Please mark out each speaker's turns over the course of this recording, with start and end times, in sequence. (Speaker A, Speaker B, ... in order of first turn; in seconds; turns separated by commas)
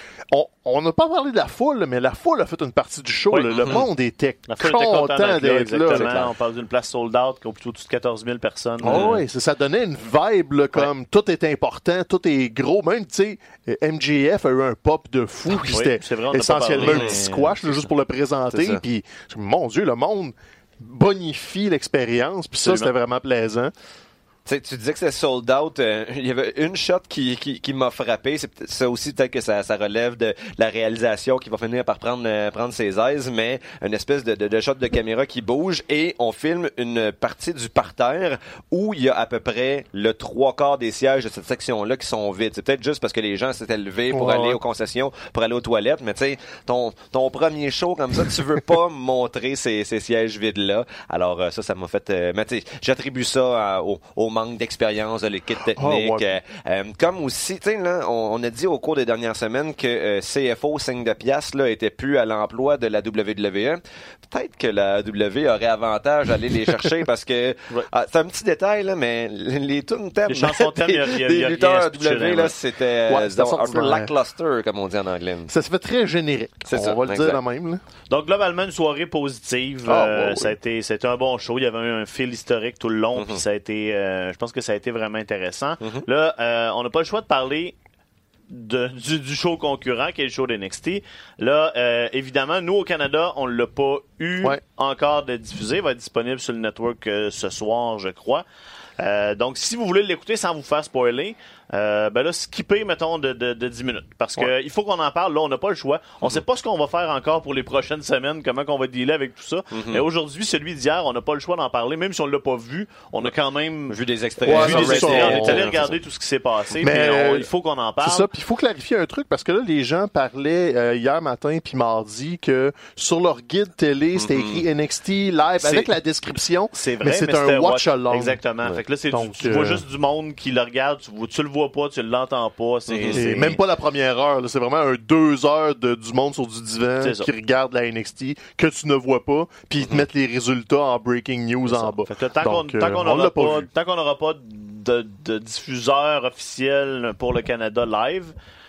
Speaker A: 0.3-6.2, Speaker B: 3.3-3.8, Speaker C: 3.5-3.9, Speaker B: 4.5-9.2, Speaker C: 5.9-6.3, Speaker A: 8.8-23.7, Speaker C: 8.8-9.2, Speaker B: 15.5-17.8, Speaker C: 16.8-17.2, Speaker C: 18.5-18.8, Speaker B: 22.6-22.9, Speaker C: 24.5-75.5, Speaker A: 44.1-44.6, Speaker A: 55.8-56.3, Speaker B: 70.3-72.5, Speaker A: 73.1-74.1, Speaker A: 75.5-77.8, Speaker C: 76.7-77.4, Speaker B: 78.1-87.8, Speaker A: 79.9-80.5, Speaker C: 83.2-83.4, Speaker C: 85.8-86.1, Speaker B: 88.5-98.5, Speaker B: 99.0-118.3, Speaker C: 109.7-110.0, Speaker C: 113.9-116.0, Speaker A: 114.4-115.7, Speaker A: 116.8-117.5, Speaker A: 118.0-128.4, Speaker C: 124.2-124.6, Speaker B: 125.6-125.9, Speaker B: 126.7-133.6, Speaker A: 129.1-129.8, Speaker C: 132.9-133.3, Speaker A: 133.1-143.7, Speaker B: 137.0-137.3, Speaker B: 141.7-148.3